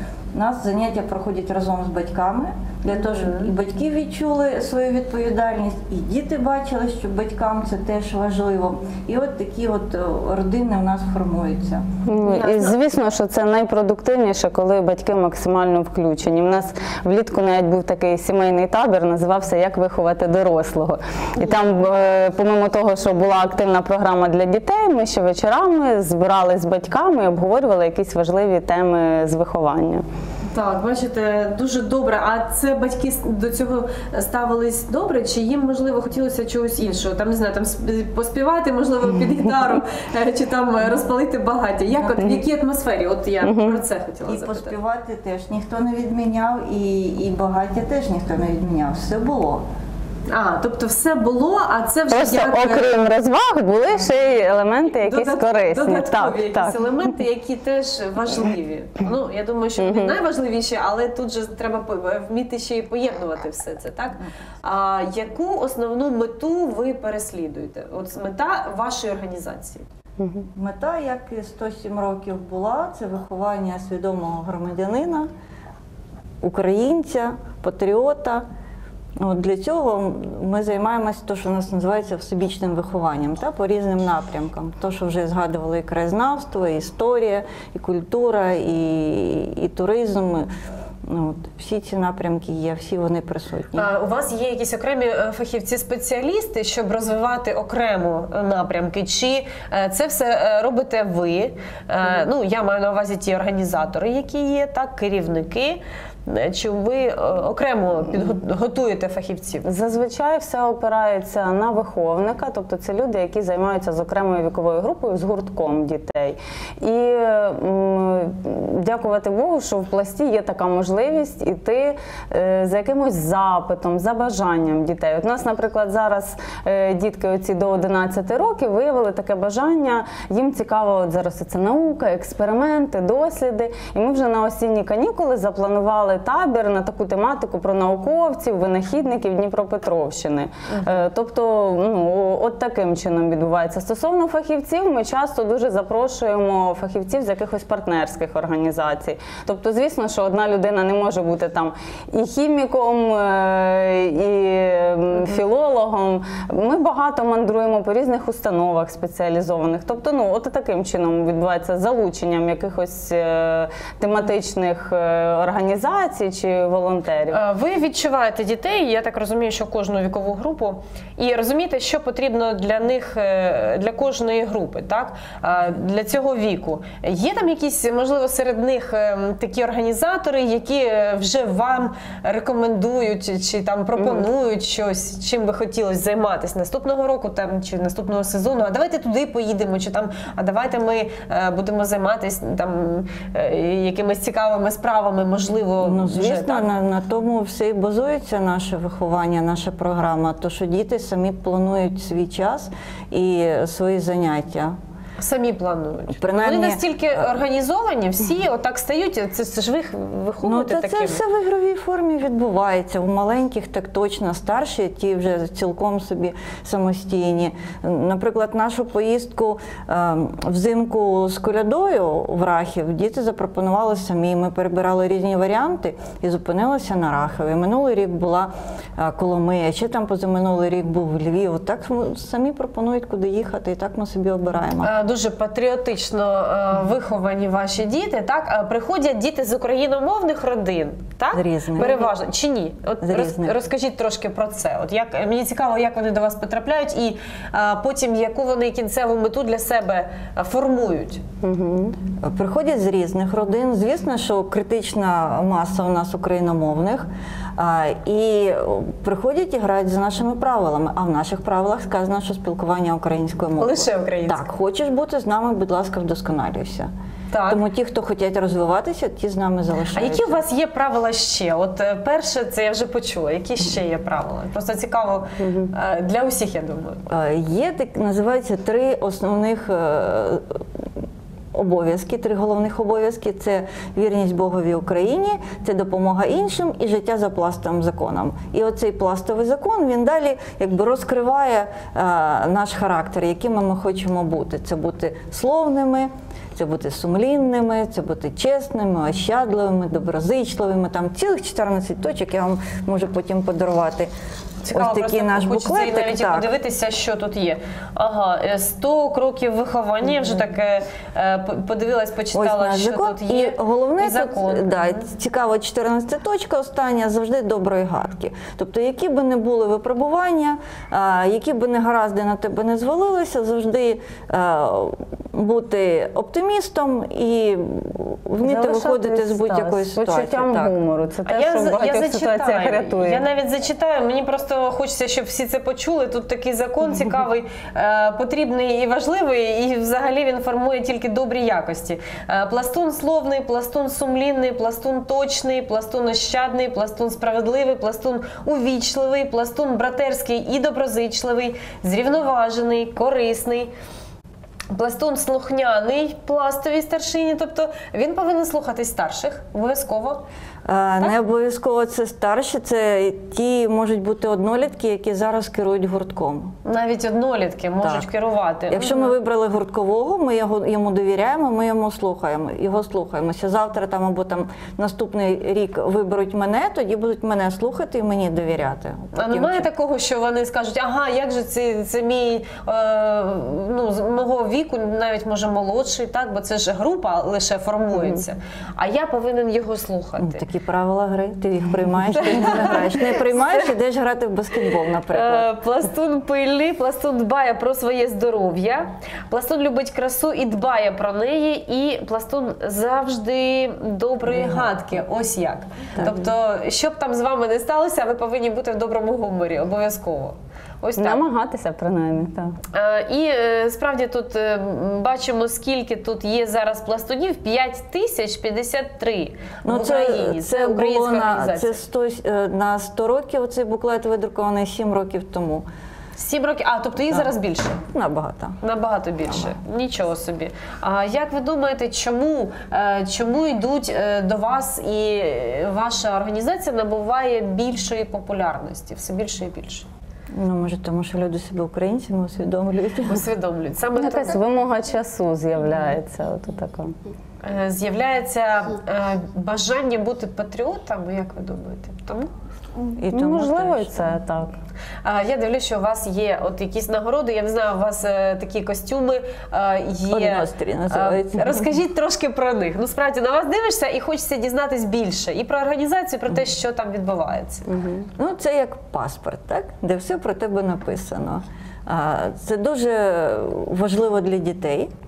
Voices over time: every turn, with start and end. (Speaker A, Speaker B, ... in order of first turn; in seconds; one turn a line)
Speaker A: 0.3-11.8
Speaker B: 3.0-3.5
Speaker C: 12.1-30.0
Speaker B: 12.2-12.7
Speaker B: 30.5-44.7
Speaker C: 43.4-43.8
Speaker A: 44.3-49.6
Speaker B: 50.3-52.9
Speaker C: 52.1-56.8
Speaker B: 54.9-69.8
Speaker C: 59.8-60.2
Speaker C: 70.2-70.5
Speaker A: 70.5-75.3
Speaker A: 76.4-78.4
Speaker A: 79.2-90.5
Speaker A: 91.0-93.9
Speaker B: 93.8-109.7
Speaker C: 109.6-167.4
Speaker B: 167.3-196.7
Speaker C: 184.0-184.2
Speaker A: 195.8-204.7
Speaker B: 205.2-211.2
Speaker A: 206.2-207.2
Speaker A: 210.4-234.9
Speaker B: 234.8-251.2
Speaker A: 241.3-242.1
Speaker A: 243.0-243.5
Speaker C: 251.4-251.9
Speaker A: 252.2-266.9
Speaker B: 263.6-264.4
Speaker B: 267.3-267.6
Speaker A: 267.5-270.4
Speaker B: 269.9-277.0
Speaker C: 275.4-275.7
Speaker A: 277.1-280.6
Speaker A: 281.5-304.1
Speaker B: 304.6-314.8
Speaker A: 304.7-306.5
Speaker A: 312.3-330.7
Speaker C: 328.4-333.2
Speaker B: 331.2-353.7
Speaker B: 354.7-360.2
Speaker A: 360.6-366.5
Speaker B: 366.6-369.1
Speaker A: 367.8-368.1
Speaker A: 368.7-379.7
Speaker B: 379.1-390.4
Speaker A: 390.2-395.5
Speaker B: 392.2-393.5
Speaker B: 395.1-411.2
Speaker A: 404.3-404.7
Speaker C: 411.0-412.6
Speaker B: 412.7-421.8
Speaker A: 419.6-425.6
Speaker B: 426.2-427.8
Speaker A: 427.9-428.6
Speaker B: 428.6-439.9
Speaker A: 440.3-443.2
Speaker B: 443.1-444.4
Speaker C: 443.9-446.9
Speaker B: 447.4-452.3
Speaker A: 452.8-453.9
Speaker C: 453.1-454.5
Speaker B: 455.0-467.7
Speaker A: 460.1-461.7
Speaker C: 467.7-468.1
Speaker A: 468.1-474.9